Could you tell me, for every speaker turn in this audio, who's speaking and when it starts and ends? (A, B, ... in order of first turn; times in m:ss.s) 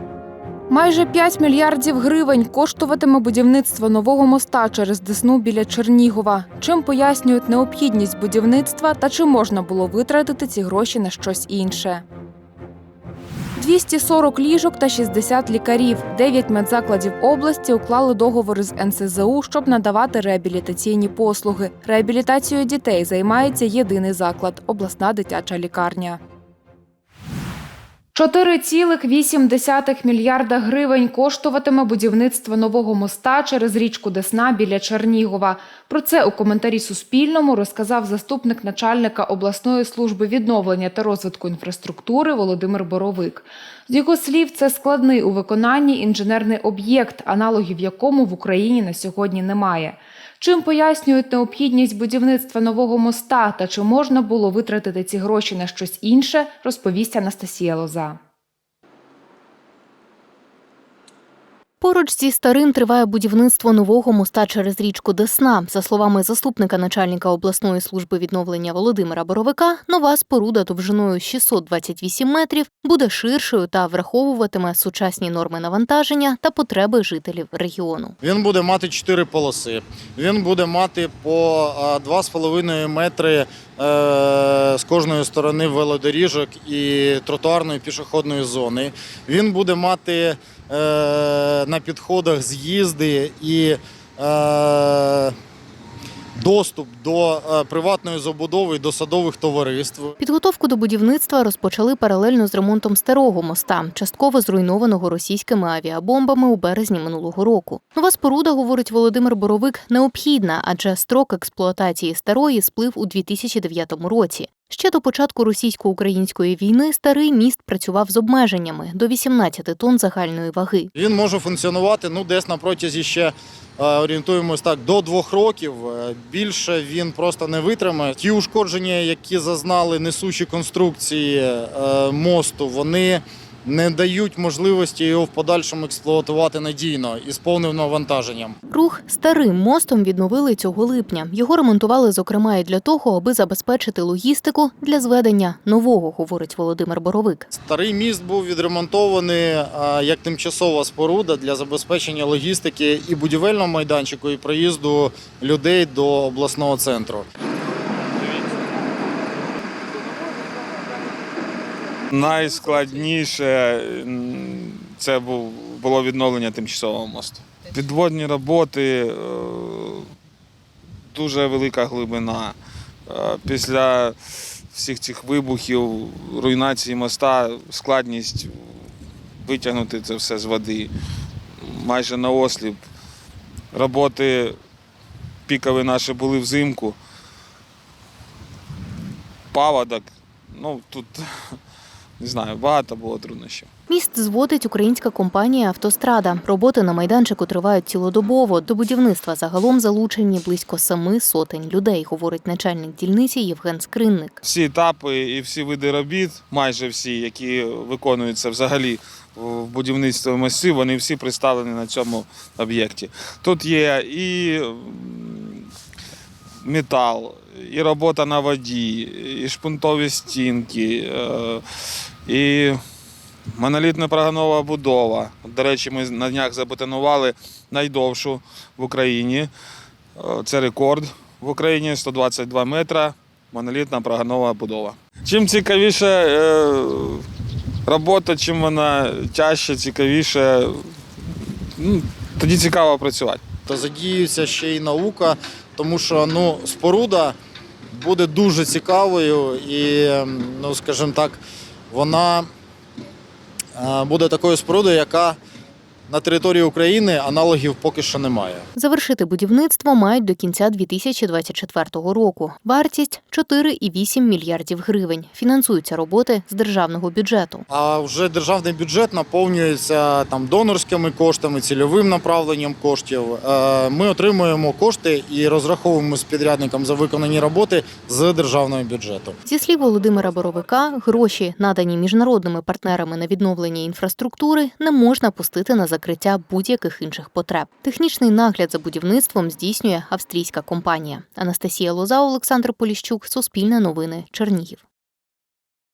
0:00.7-0:12.0 A
0:13.6-0:26.2 A
0:28.1-0:58.2 A
1:01.8-1:18.1 B
1:18.2-1:35.3 C
1:36.4-1:40.1 C
1:40.2-2:00.9 B
2:01.0-2:18.6 C
2:18.7-2:27.5 B
2:27.6-2:37.3 C
2:42.1-2:50.0 D
2:51.1-2:52.6 D
2:53.1-2:54.1 D
2:54.7-2:58.5 D
2:59.4-3:00.9 D
3:01.6-3:02.8 D
3:03.7-3:04.5 D
3:05.5-3:07.0 D
3:09.5-3:11.3 D
3:12.2-3:13.7 D
3:13.9-3:24.4 B
3:24.4-3:35.6 D
3:36.6-3:41.6 D
3:42.3-3:42.8 D
3:43.6-3:49.5 D
3:50.2-3:57.2 D
3:57.9-4:00.7 D
4:01.8-4:03.4 D
4:03.7-4:07.4 C
4:07.9-4:12.5 C
4:13.8-4:15.4 C
4:16.1-4:18.7 C
4:18.8-4:27.6 B
4:27.7-4:39.4 C
4:39.5-4:54.8 B